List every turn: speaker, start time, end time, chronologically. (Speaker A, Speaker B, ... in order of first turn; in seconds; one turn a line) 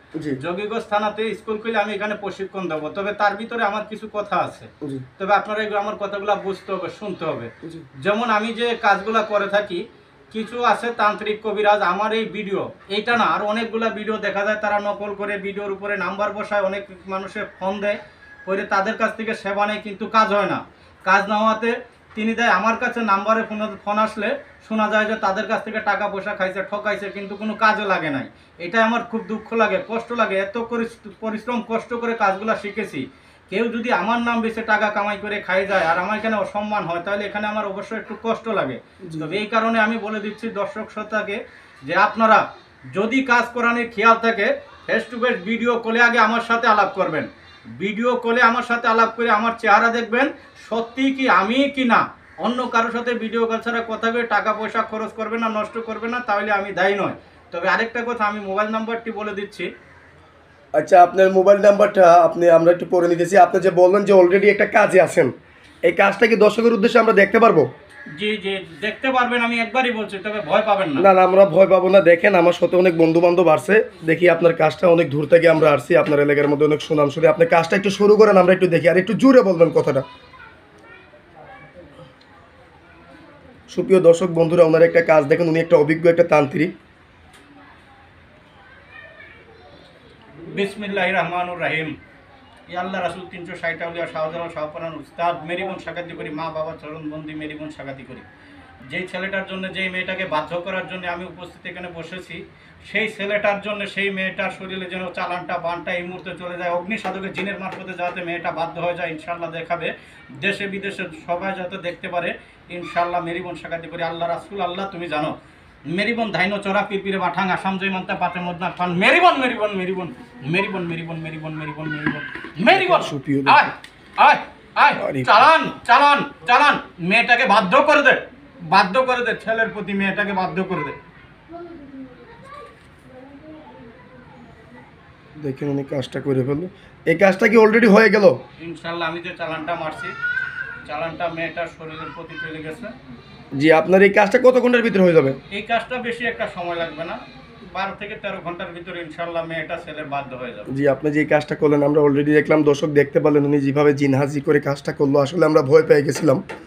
Speaker A: 0.4-59.7
Speaker B: 39.1-39.4
Speaker B: 60.8-65.3
Speaker B: 65.8-67.7
Speaker A: 68.2-71.1
Speaker B: 71.0-80.0
Speaker B: 83.7-86.7
Speaker A: 90.5-91.9
Speaker A: 92.7-98.2
Speaker A: 98.9-115.3
Speaker A: 115.9-131.0
Speaker B: 122.7-123.7
Speaker B: 125.0-125.5
Speaker B: 135.4-138.4
Speaker A: 138.6-140.1
Speaker A: 140.9-142.9
Speaker B: 143.6-145.4
Speaker A: 145.5-147.2
Speaker A: 147.7-150.7
Speaker B: 150.7-156.4